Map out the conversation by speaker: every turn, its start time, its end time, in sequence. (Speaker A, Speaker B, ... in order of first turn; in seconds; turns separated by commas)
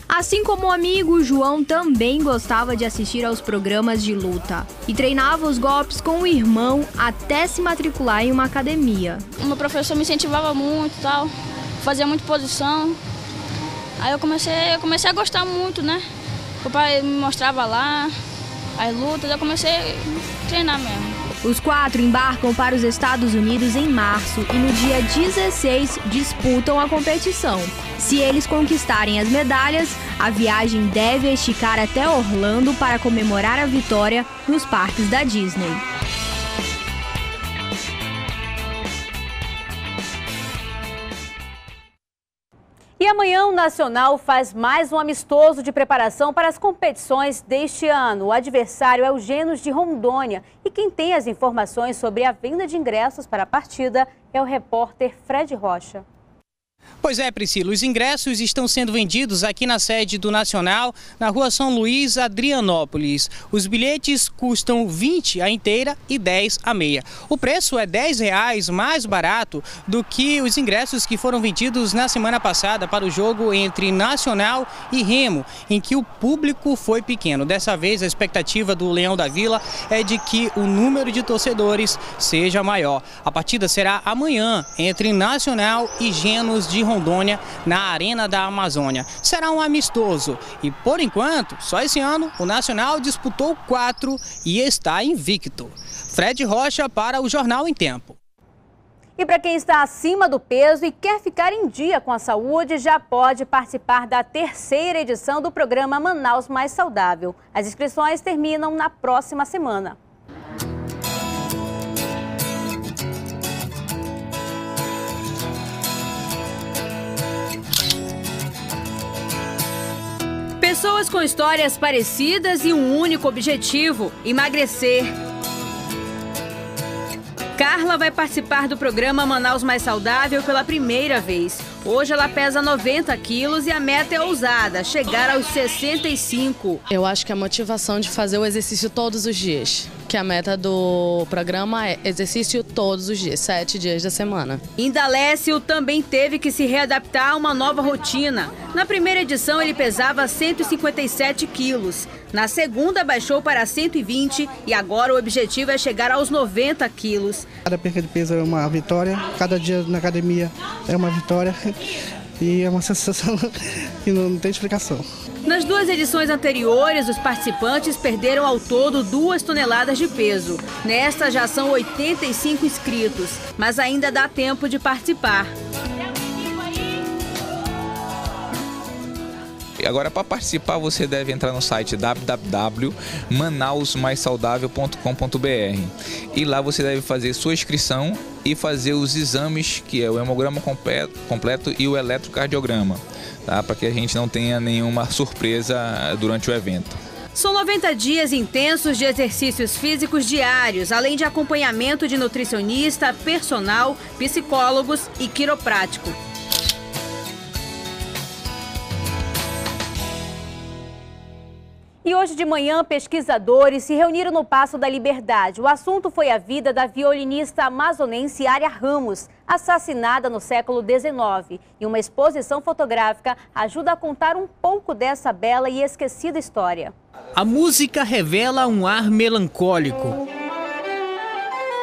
Speaker A: 0.1-9.2, Speaker B: 9.4-13.0, Speaker B: 14.0-16.0, Speaker B: 16.6-18.1, Speaker B: 18.8-21.2, Speaker A: 21.4-35.8, Speaker C: 43.0-56.0, Speaker D: 57.0-98.2, Speaker C: 99.2-110.0, Speaker C: 120.6-125.1, Speaker C: 127.6-136.8, Speaker E: 136.9-144.6, Speaker C: 144.8-157.5, Speaker F: 157.7-161.7, Speaker F: 162.4-163.4, Speaker F: 164.1-165.0, Speaker C: 165.4-175.5, Speaker G: 179.8-193.0, Speaker G: 193.5-196.9, Speaker C: 197.3-206.2, Speaker C: 212.0-226.9, Speaker D: 227.4-230.2